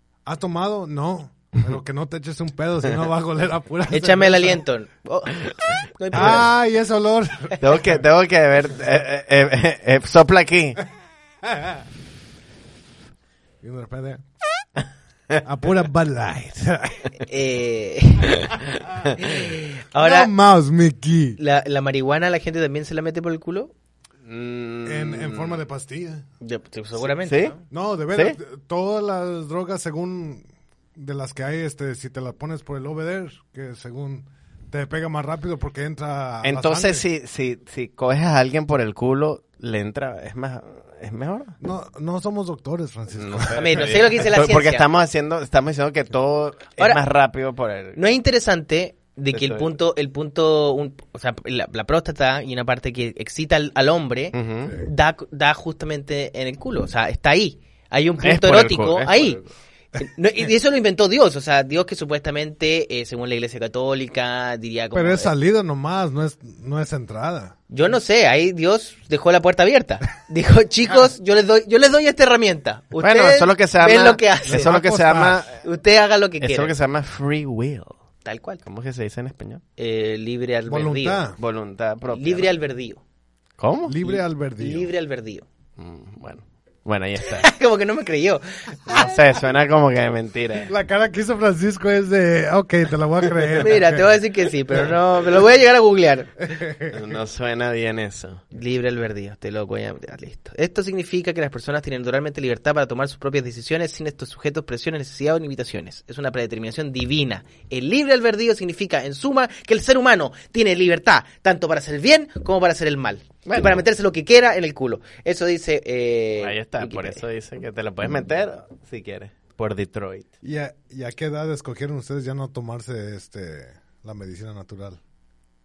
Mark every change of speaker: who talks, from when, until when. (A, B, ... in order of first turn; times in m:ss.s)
0:00.2-0:04.6 A
0:03.9-0:06.5 B
0:06.1-0:06.4 C
0:06.1-0:08.0 A
0:07.6-0:10.8 C
0:11.5-0:11.8 A
0:13.6-0:14.2 A
0:15.4-0:17.1 A
0:17.2-0:18.5 B
0:19.2-0:20.3 B
0:20.0-0:21.4 A
0:21.4-0:23.7 B
0:24.2-0:25.6 C
0:24.8-0:26.3 A
0:26.4-0:27.6 B
0:27.0-0:27.5 C
0:27.7-0:37.0 A
0:28.1-0:28.4 C
0:36.4-0:41.6 C
0:41.6-0:43.9 A
0:43.2-0:48.0 C
0:43.6-0:44.9 B
0:48.0-0:59.4 B
0:49.3-0:49.7 C
0:54.3-0:54.8 C
0:58.2-0:59.5 C
1:00.0-1:05.3 B
1:04.9-1:07.6 A
1:07.7-1:14.8 B
1:13.0-1:15.6 C
1:14.5-1:15.5 A
1:15.6-1:16.8 B
1:16.4-1:18.0 C
1:18.2-1:18.6 B
1:18.6-1:19.6 C
1:19.8-1:21.2 B
1:20.7-1:21.4 A
1:21.4-1:22.5 C
1:22.1-1:23.0 B
1:23.6-1:24.1 C
1:23.9-1:24.9 A
1:24.6-1:25.5 B
1:25.8-1:27.5 C
1:27.2-1:29.1 B
1:28.9-1:30.7 C
1:30.7-1:34.0 A
1:33.6-1:36.3 B
1:36.4-1:37.0 A
1:36.9-1:38.4 C
1:38.5-1:57.2 B
1:53.5-1:53.8 C
1:56.4-2:00.3 C
2:00.4-2:05.0 A